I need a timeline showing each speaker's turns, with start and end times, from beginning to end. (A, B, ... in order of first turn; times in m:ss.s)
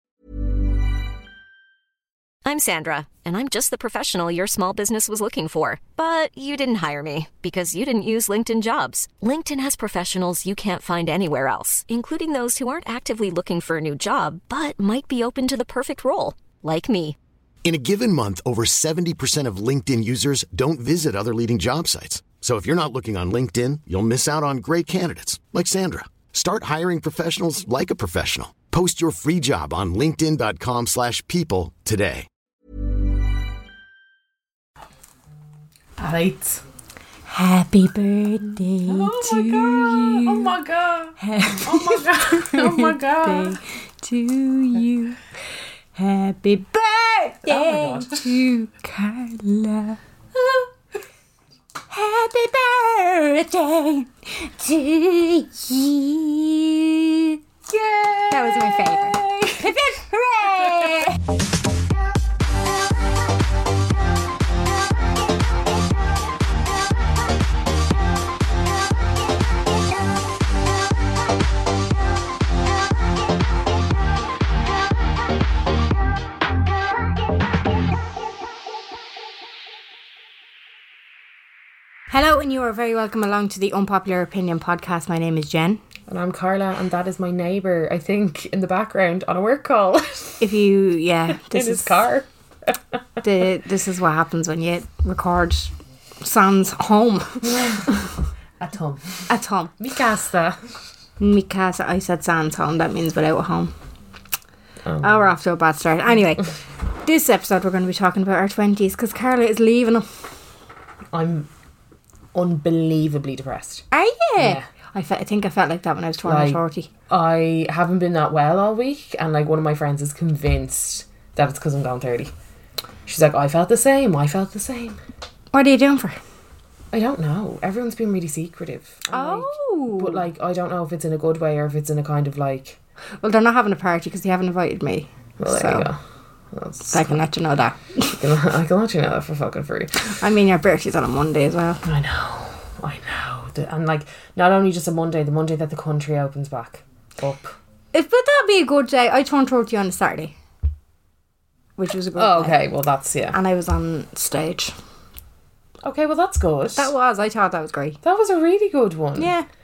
0:02.4-0:17.2 A
0:17.6-0:32.2 B
0:36.0-0:36.6 C
0:37.3-0:40.5 D
0:38.8-0:43.6 C
0:41.2-0:45.2 D
0:45.9-0:50.0 D
0:47.4-0:48.3 C
0:51.9-0:57.4 D
0:57.7-1:01.1 C
0:58.3-1:01.2 D
1:22.1-1:25.8 D
1:26.1-1:30.5 C
1:30.4-1:32.0 D
1:31.3-1:33.2 C
1:33.2-1:37.9 D
1:37.4-1:38.0 C
1:38.6-1:40.8 C
1:39.3-1:39.7 D
1:41.2-1:43.7 D
1:44.8-1:45.3 C
1:45.0-1:50.3 D
1:51.1-1:51.5 C
1:52.3-1:53.8 C
1:53.9-1:56.9 D
1:54.4-1:54.6 C
1:56.2-2:02.3 C
2:03.0-2:05.0 C
2:05.5-2:06.2 D
2:06.9-2:12.8 C
2:09.1-2:10.2 D
2:13.2-2:15.9 D
2:15.4-2:16.0 C
2:16.5-2:17.2 C
2:16.8-2:18.2 D
2:18.2-2:20.0 C
2:20.0-2:21.8 D
2:21.8-2:27.6 C
2:27.9-2:30.3 D
2:31.8-2:32.6 D
2:32.2-2:33.4 C
2:33.3-2:34.7 D
2:35.8-2:36.9 C
2:36.8-2:38.0 D
2:38.0-2:39.3 C
2:39.2-2:39.4 D